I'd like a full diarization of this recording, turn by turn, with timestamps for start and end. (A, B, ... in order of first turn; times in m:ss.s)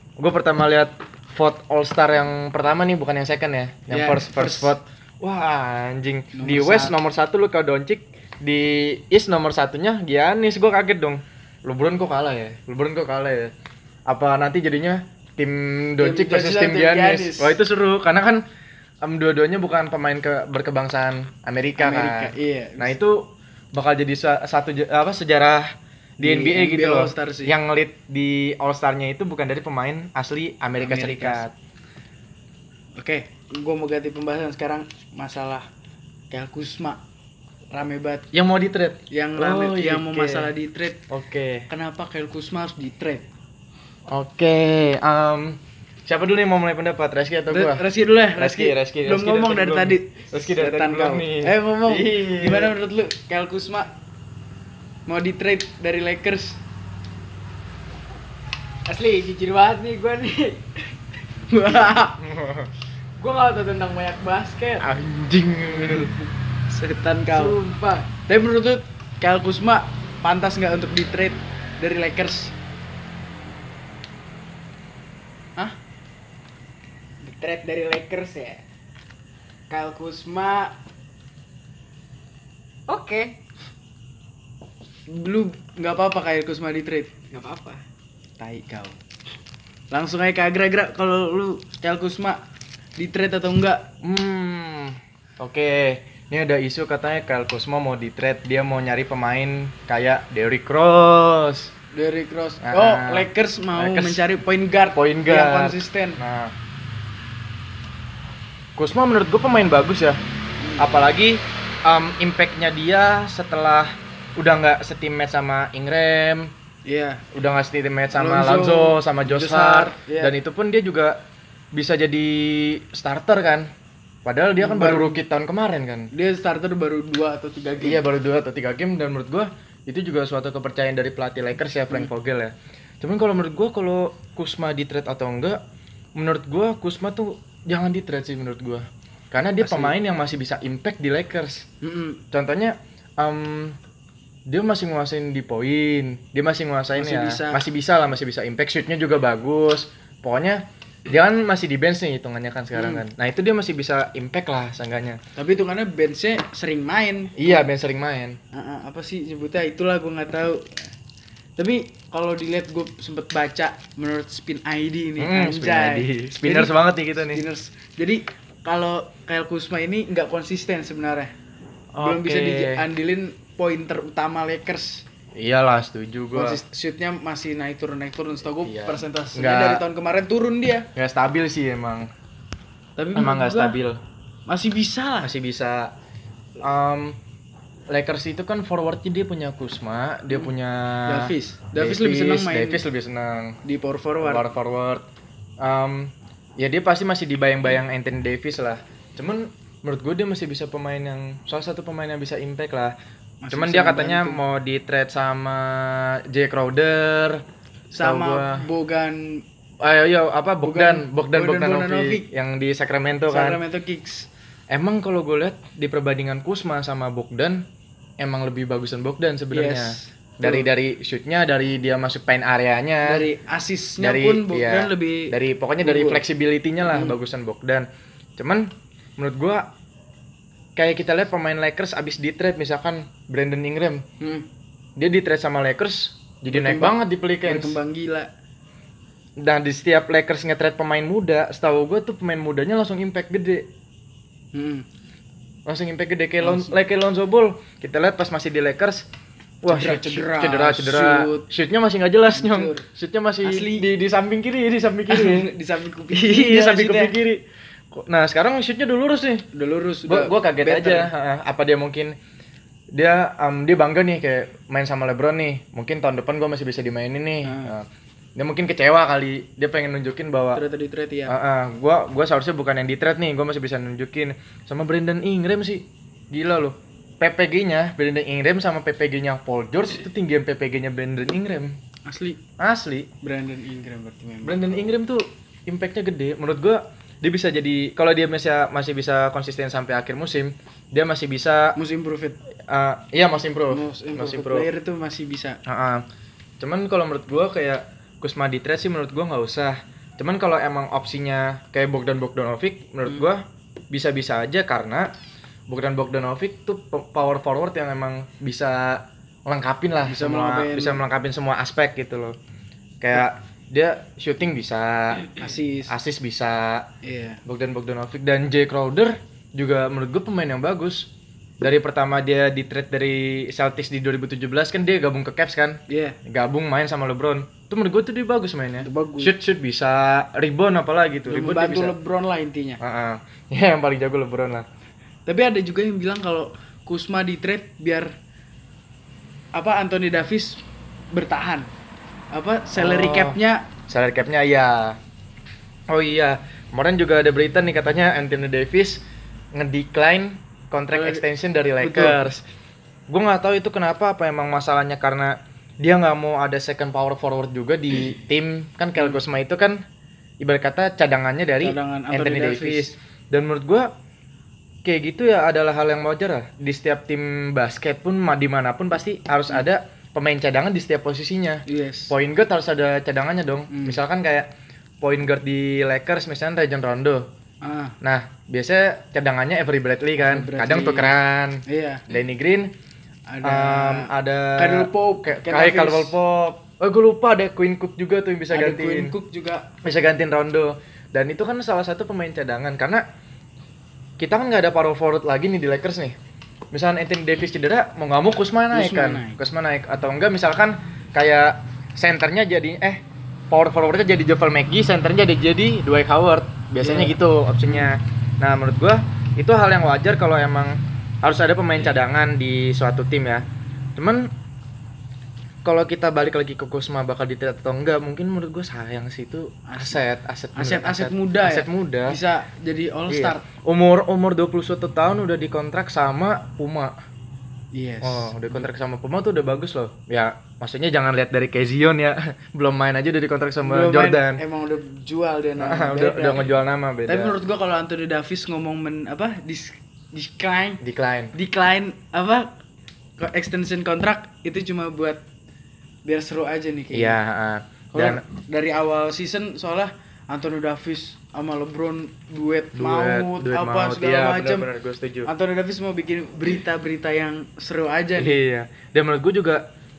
0:00.2-0:13.5 A
0:03.9-0:04.8 B
0:06.4-0:06.9 B
0:14.1-0:18.4 A
0:16.0-0:17.6 B
0:19.0-0:31.5 A
0:21.8-0:23.0 B
0:26.2-0:27.6 B
0:30.8-0:31.4 B
0:33.0-0:35.7 B
0:36.3-0:37.0 B
0:37.7-0:38.3 B
0:38.3-0:40.5 A
0:39.1-0:41.0 B
0:41.1-0:41.7 A
0:41.7-0:43.3 B
0:44.1-0:47.8 A
0:47.5-0:53.9 B
0:48.4-0:52.7 A
0:55.1-0:56.6 B
0:58.9-1:00.7 C
1:01.5-1:02.2 B
1:02.2-1:02.7 A
1:03.2-1:04.9 B
1:04.8-1:06.1 A
1:05.6-1:12.5 B
1:07.3-1:08.1 C
1:17.2-1:18.6 C
1:19.7-1:20.7 C
1:22.9-1:23.4 C
1:25.1-1:27.1 B
1:27.3-1:27.8 C
1:28.4-1:29.0 B
1:29.9-1:32.4 B
1:33.0-1:33.9 B
1:34.0-1:41.7 A
1:41.9-1:46.2 B
1:42.6-1:44.2 A
1:44.9-1:46.5 A
1:48.8-1:50.2 A
1:50.6-1:50.9 B
1:50.8-1:56.5 A
1:56.9-1:57.3 B
1:57.3-2:01.2 A
1:58.1-2:00.3 B
2:01.7-2:03.7 A
2:04.2-2:06.1 A
2:04.6-2:05.2 B
2:06.1-2:08.0 B
2:07.8-2:15.6 A
2:16.2-2:21.7 A
2:19.6-2:19.9 B
2:21.8-2:22.2 B
2:22.3-2:23.8 A
2:24.5-2:35.2 A
2:27.0-2:27.6 B
2:32.7-2:33.0 B
2:35.4-2:37.6 B
2:37.4-2:38.4 A
2:38.5-2:40.9 B
2:41.6-2:51.3 B
2:45.2-2:47.4 A
2:52.0-2:52.9 A
2:52.0-2:55.1 B
2:55.4-2:56.6 A
2:56.4-3:00.9 B
2:58.6-2:59.8 A
3:01.0-3:02.1 A
3:03.0-3:03.8 B
3:03.2-3:04.0 A
3:04.5-3:05.3 B
3:05.2-3:05.9 A
3:06.6-3:07.2 A
3:07.9-3:13.6 A
3:11.1-3:12.8 B
3:13.6-3:14.5 B
3:14.2-3:15.1 A
3:15.6-3:23.0 A
3:23.4-3:24.4 B
3:23.5-3:27.4 A
3:27.9-3:29.4 B
3:28.0-3:28.7 A
3:29.8-3:33.6 A
3:30.6-3:32.3 B
3:33.3-3:34.3 B
3:34.7-3:37.7 A
3:38.2-3:43.3 A
3:39.5-3:40.7 B
3:43.0-3:46.2 B
3:44.0-3:49.7 A
3:46.9-3:47.2 B
3:50.8-3:54.1 A
3:54.2-3:54.5 B
3:55.0-3:57.8 A
3:56.5-3:58.3 B
3:59.4-4:03.7 A
4:04.5-4:04.8 B
4:05.7-4:09.1 A
4:06.4-4:06.8 B
4:09.6-4:15.5 A
4:09.7-4:11.5 B
4:12.3-4:12.9 B
4:13.4-4:13.9 B
4:15.1-4:17.2 B
4:16.1-4:19.5 A
4:19.5-4:21.1 B
4:20.1-4:22.2 A
4:22.9-4:30.6 A
4:27.4-4:27.7 B
4:30.6-4:31.4 B
4:31.3-4:41.8 A
4:42.0-4:42.4 B
4:42.6-4:43.1 A
4:43.2-4:44.7 B
4:44.4-4:51.8 A
4:51.8-4:52.4 B
4:52.7-4:54.7 A
4:53.7-4:55.6 B
4:55.7-4:56.0 A
4:56.6-5:05.1 A
5:05.7-5:12.4 A
5:10.1-5:11.0 B
5:13.0-5:15.4 A
5:15.4-5:16.0 B
5:15.9-5:16.9 A
5:17.0-5:17.4 B
5:17.5-5:32.0 A
5:25.9-5:26.2 B
5:28.8-5:29.3 B
5:31.3-5:32.8 B
5:32.8-5:34.7 A
5:35.3-5:38.1 B
5:39.5-5:40.6 B
5:41.1-5:41.7 B
5:42.3-5:43.7 B
5:42.8-5:45.0 A
5:45.9-5:49.0 A
5:49.5-5:52.4 A
5:50.9-5:51.2 B
5:51.8-5:52.2 B
5:53.1-5:59.8 A
6:00.4-6:03.9 A
6:01.6-6:02.9 B
6:04.8-6:14.5 A
6:11.7-6:12.2 B
6:13.7-6:14.0 B
6:15.0-6:17.3 A
6:17.6-6:18.0 B
6:18.0-6:22.7 A
6:20.2-6:21.2 B
6:21.7-6:22.0 B
6:23.3-6:26.1 B
6:23.4-6:29.2 A
6:28.5-6:29.7 B
6:29.8-6:33.0 A
6:34.2-6:36.2 A
6:36.7-6:53.4 A
6:38.7-6:39.4 B
6:46.8-6:47.9 B
6:54.0-6:54.3 A
6:55.6-7:02.2 A
6:59.7-7:00.0 B
7:00.6-7:03.4 B
7:03.1-7:07.0 A
7:07.7-7:08.7 B
7:08.0-7:14.4 A
7:13.6-7:20.8 B
7:15.6-7:17.4 A
7:20.8-7:21.4 A
7:21.4-7:22.6 B
7:23.2-7:25.2 B
7:26.1-7:27.2 B
7:26.9-7:28.2 A
7:27.9-7:34.7 B
7:32.8-7:35.3 A
7:35.3-7:38.4 B
7:38.2-7:39.6 A